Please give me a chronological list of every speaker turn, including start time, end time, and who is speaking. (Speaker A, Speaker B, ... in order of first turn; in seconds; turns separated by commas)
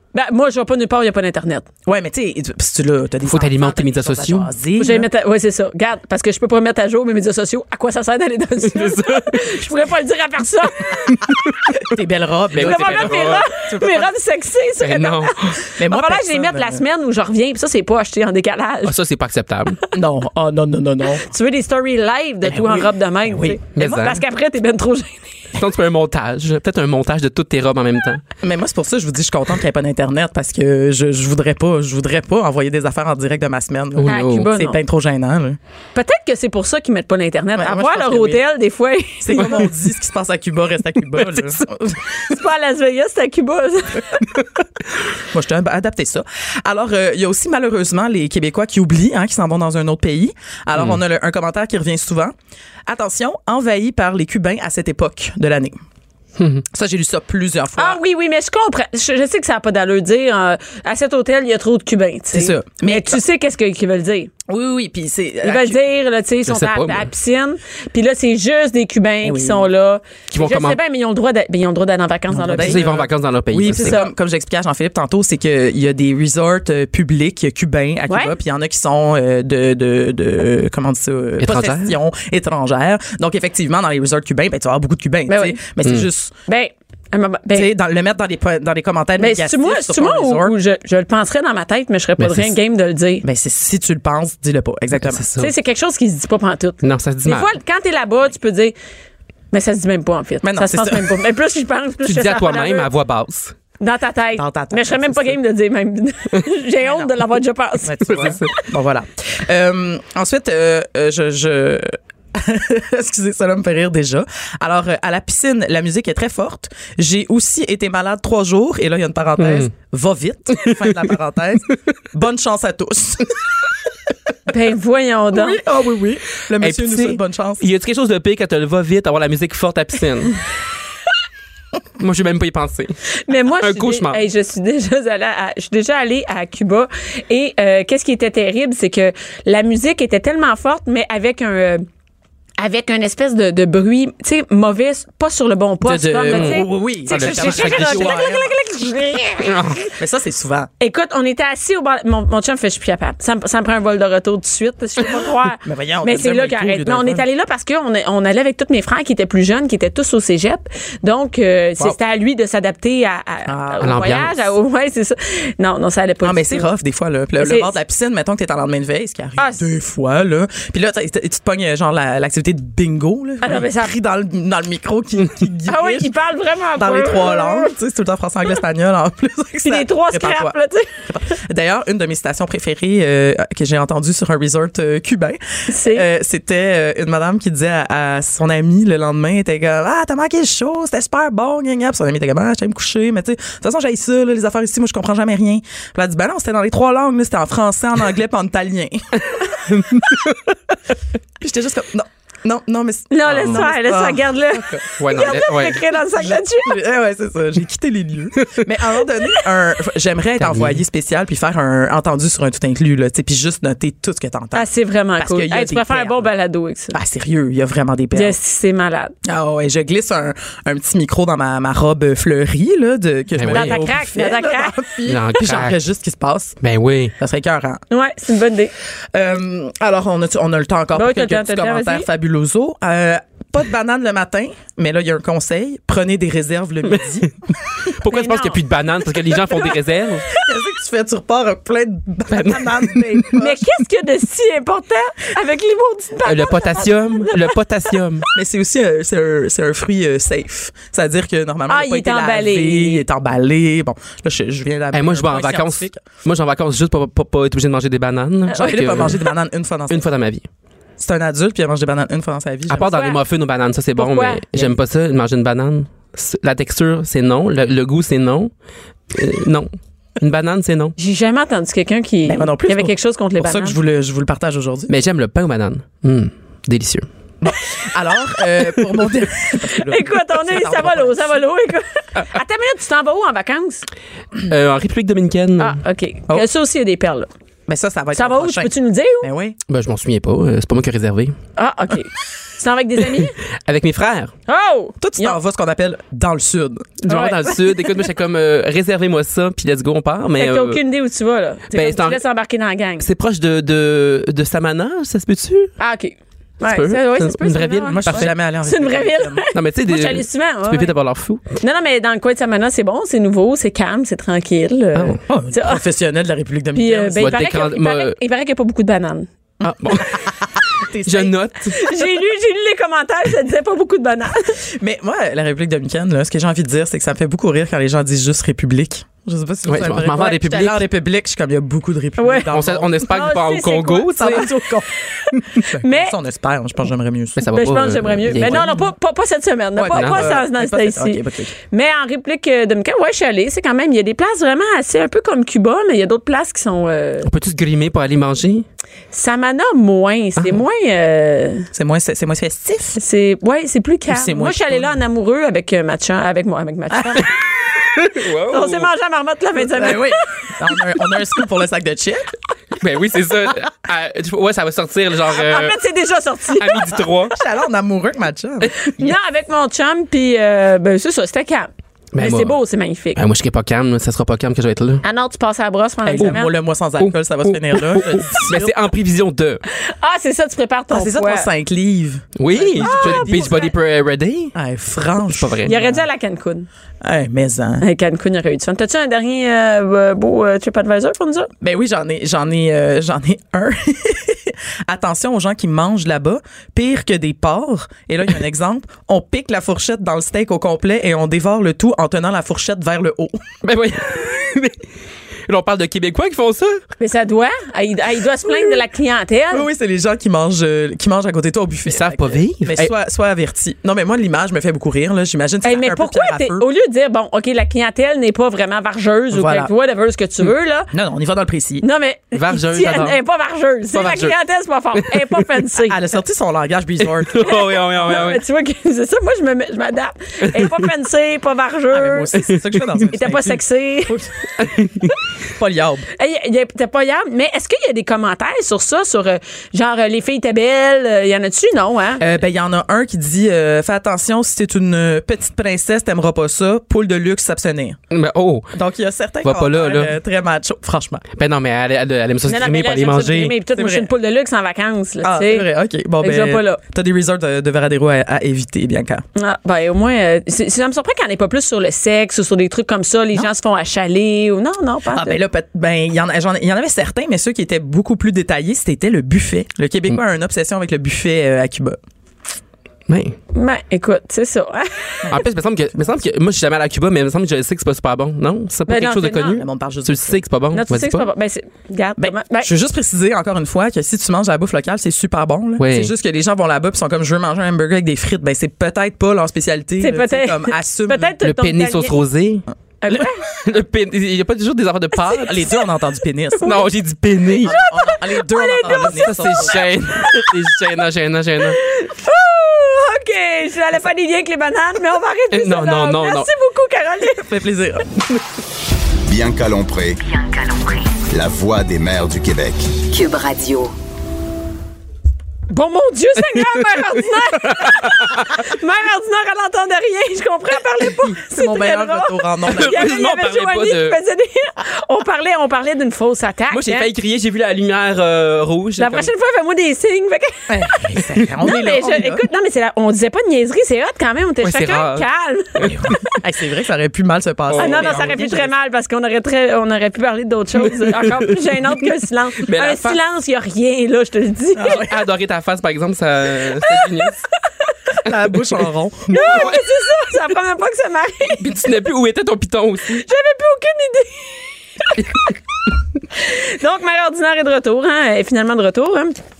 Speaker A: 0.1-1.6, Speaker B: 1.9-5.1, Speaker C: 3.2-4.5, Speaker A: 4.8-11.3, Speaker C: 8.7-9.6, Speaker C: 11.3-11.8, Speaker B: 11.8-14.1, Speaker C: 12.5-13.5, Speaker A: 12.6-18.9, Speaker C: 14.8-15.6, Speaker B: 15.7-16.8, Speaker C: 18.9-19.8, Speaker B: 19.9-21.2, Speaker A: 21.2-25.4, Speaker B: 22.4-24.1, Speaker C: 23.7-24.2, Speaker C: 25.5-28.2, Speaker B: 28.4-35.6, Speaker C: 34.0-34.5, Speaker A: 34.0-34.8, Speaker A: 35.9-39.6, Speaker B: 37.5-38.4, Speaker B: 39.2-42.0, Speaker C: 41.2-41.6, Speaker A: 42.3-44.2, Speaker B: 45.3-52.3, Speaker C: 50.7-51.0, Speaker B: 52.9-55.8, Speaker C: 56.4-56.6, Speaker B: 56.7-58.0, Speaker A: 57.8-64.3, Speaker B: 62.3-63.2, Speaker B: 64.5-65.8, Speaker A: 65.4-72.9, Speaker C: 66.5-67.1, Speaker B: 69.2-69.7, Speaker C: 70.3-70.8, Speaker B: 72.3-86.3, Speaker C: 72.5-74.0, Speaker A: 73.7-74.1, Speaker A: 78.1-78.3, Speaker C: 81.4-82.0, Speaker A: 85.3-85.6, Speaker A: 86.5-87.7, Speaker B: 87.5-90.5, Speaker A: 89.2-93.2, Speaker C: 92.2-92.5, Speaker B: 93.2-95.3, Speaker C: 95.0-95.5, Speaker A: 95.4-98.7, Speaker C: 96.8-97.5, Speaker A: 99.5-102.9, Speaker B: 100.4-101.2, Speaker C: 102.0-103.5, Speaker A: 103.8-108.3, Speaker B: 104.4-105.4, Speaker B: 106.8-107.1, Speaker B: 107.8-123.4, Speaker C: 108.0-108.6, Speaker C: 119.4-119.7, Speaker A: 124.5-125.6, Speaker B: 125.3-127.6, Speaker C: 126.6-130.4, Speaker C: 132.0-132.9, Speaker A: 133.2-141.9, Speaker C: 133.5-134.2, Speaker A: 142.6-149.9, Speaker C: 145.9-148.4, Speaker B: 146.2-148.5, Speaker C: 149.4-149.9, Speaker B: 150.0-150.7, Speaker A: 150.8-166.7, Speaker B: 155.6-157.2, Speaker B: 163.5-164.2, Speaker C: 163.8-164.4, Speaker B: 166.2-176.1, Speaker A: 167.4-167.7, Speaker A: 169.4-169.6, Speaker A: 173.4-173.9, Speaker A: 175.7-177.7, Speaker B: 176.8-199.6, Speaker A: 179.6-181.0, Speaker A: 185.7-186.0, Speaker C: 199.7-200.4, Speaker B: 201.4-205.4, Speaker A: 203.1-206.8, Speaker C: 203.2-203.7, Speaker C: 205.0-205.8, Speaker B: 206.1-216.3, Speaker C: 208.4-208.7, Speaker C: 210.4-210.8, Speaker A: 214.5-216.9, Speaker B: 216.9-218.4, Speaker A: 218.1-219.1, Speaker B: 219.2-226.6, Speaker C: 223.3-223.8, Speaker A: 223.5-224.8, Speaker C: 225.0-225.8, Speaker C: 226.6-227.1, Speaker B: 227.2-227.8, Speaker A: 227.9-228.7, Speaker B: 229.1-237.3, Speaker A: 230.9-232.1, Speaker C: 236.9-237.3, Speaker C: 237.9-240.3, Speaker A: 238.1-238.6, Speaker B: 240.3-243.7, Speaker C: 242.3-243.0, Speaker A: 243.3-247.6, Speaker C: 246.2-248.3, Speaker B: 248.3-256.1, Speaker A: 251.7-253.0, Speaker C: 254.9-259.3, Speaker A: 258.5-259.2, Speaker B: 258.5-260.1, Speaker C: 259.9-260.4, Speaker B: 261.0-262.9, Speaker C: 262.7-268.5, Speaker A: 262.8-263.2, Speaker A: 263.9-264.4, Speaker C: 269.1-270.9, Speaker A: 271.0-273.8, Speaker B: 272.3-274.9, Speaker C: 274.9-277.1, Speaker B: 277.4-281.4, Speaker A: 279.7-283.8, Speaker C: 284.4-285.8, Speaker A: 285.6-287.3, Speaker B: 287.7-289.6, Speaker A: 288.1-289.3, Speaker C: 289.7-291.4, Speaker A: 291.6-293.4, Speaker C: 293.2-294.3, Speaker A: 294.5-295.4, Speaker B: 295.0-297.0, Speaker C: 297.0-300.8, Speaker A: 297.1-297.8, Speaker A: 300.4-303.1, Speaker C: 301.7-302.2, Speaker C: 303.0-305.7, Speaker A: 305.8-310.9, Speaker C: 306.6-308.3, Speaker B: 307.9-309.4, Speaker C: 309.5-311.4, Speaker A: 311.6-315.8, Speaker C: 314.9-315.2, Speaker B: 315.3-317.3, Speaker A: 316.7-319.3, Speaker C: 317.2-318.2, Speaker B: 319.6-321.4, Speaker C: 319.6-320.2, Speaker C: 321.1-321.8, Speaker A: 321.7-324.6, Speaker B: 324.7-333.1, Speaker C: 329.6-330.8, Speaker A: 332.2-332.5, Speaker C: 332.5-334.5, Speaker A: 333.0-334.5, Speaker B: 334.2-337.4, Speaker A: 335.1-336.1, Speaker C: 337.4-338.8, Speaker A: 337.5-347.3, Speaker B: 338.3-338.8, Speaker B: 339.8-341.6, Speaker C: 339.9-340.4, Speaker C: 347.2-348.6, Speaker A: 349.1-351.7, Speaker B: 351.7-353.0, Speaker A: 352.9-357.4, Speaker B: 354.1-354.9, Speaker C: 357.8-358.9, Speaker A: 358.5-361.1, Speaker B: 359.7-362.3, Speaker C: 362.8-365.8, Speaker A: 365.3-367.0, Speaker C: 366.6-367.4, Speaker B: 367.3-369.1, Speaker A: 369.0-373.2, Speaker C: 372.1-372.6, Speaker C: 373.1-375.0, Speaker A: 375.0-376.5, Speaker B: 376.1-378.7, Speaker C: 377.0-379.6, Speaker A: 379.7-381.5, Speaker B: 380.9-383.6, Speaker C: 382.4-384.5, Speaker A: 382.8-383.7, Speaker B: 384.6-386.0, Speaker C: 385.3-385.8, Speaker A: 385.6-386.7, Speaker B: 387.0-387.8, Speaker A: 387.8-391.5, Speaker B: 391.6-403.4, Speaker C: 403.6-404.8, Speaker C: 405.5-406.8, Speaker A: 407.0-409.7, Speaker B: 409.5-416.6, Speaker C: 411.9-412.9, Speaker A: 415.6-420.9, Speaker B: 419.3-419.7, Speaker B: 420.9-421.8, Speaker A: 421.8-426.0, Speaker C: 422.3-423.2, Speaker C: 423.9-424.3, Speaker C: 425.0-425.4, Speaker B: 425.9-427.5, Speaker C: 427.0-428.4, Speaker A: 427.4-432.3, Speaker C: 430.5-430.8, Speaker B: 431.9-434.7, Speaker A: 433.1-434.2, Speaker C: 434.6-435.1, Speaker B: 435.6-436.1, Speaker A: 436.1-442.2, Speaker B: 442.2-448.0, Speaker C: 448.1-448.7, Speaker B: 448.7-451.2, Speaker C: 449.4-450.1, Speaker C: 451.3-453.6, Speaker A: 452.4-455.7, Speaker B: 453.7-454.1, Speaker B: 455.2-459.2, Speaker A: 456.2-456.8, Speaker A: 459.3-465.4, Speaker B: 465.1-472.0, Speaker C: 473.1-473.4, Speaker A: 473.5-475.3, Speaker C: 475.3-481.3, Speaker A: 478.9-479.6, Speaker B: 479.4-480.4, Speaker A: 480.7-482.7, Speaker B: 482.2-491.4, Speaker C: 485.8-486.1, Speaker A: 490.0-492.2, Speaker C: 491.4-492.6, Speaker A: 493.0-493.4, Speaker C: 493.6-495.7, Speaker A: 495.1-495.7, Speaker B: 495.4-496.9, Speaker C: 496.6-497.8, Speaker B: 497.6-499.9, Speaker A: 497.6-500.5, Speaker C: 498.8-501.8, Speaker A: 501.7-507.5, Speaker C: 505.5-506.5, Speaker B: 507.3-508.1, Speaker D: 509.3-510.2, Speaker E: 510.2-511.2, Speaker D: 511.3-513.0, Speaker E: 513.0-513.9, Speaker A: 515.7-527.1, Speaker C: 517.6-518.6, Speaker B: 521.3-523.0, Speaker C: 522.7-524.2, Speaker C: 526.7-529.3, Speaker A: 529.0-536.4, Speaker B: 530.7-532.5, Speaker C: 534.6-536.2, Speaker B: 535.8-538.7, Speaker C: 537.7-538.5, Speaker A: 537.7-545.0, Speaker C: 540.8-541.6, Speaker C: 542.6-543.2, Speaker B: 544.8-545.2, Speaker C: 544.9-547.4, Speaker A: 546.8-547.3, Speaker B: 548.2-549.6, Speaker C: 548.3-548.5, Speaker C: 549.3-549.8, Speaker A: 549.3-551.8, Speaker C: 551.6-553.2, Speaker A: 553.1-555.5, Speaker A: 556.3-559.4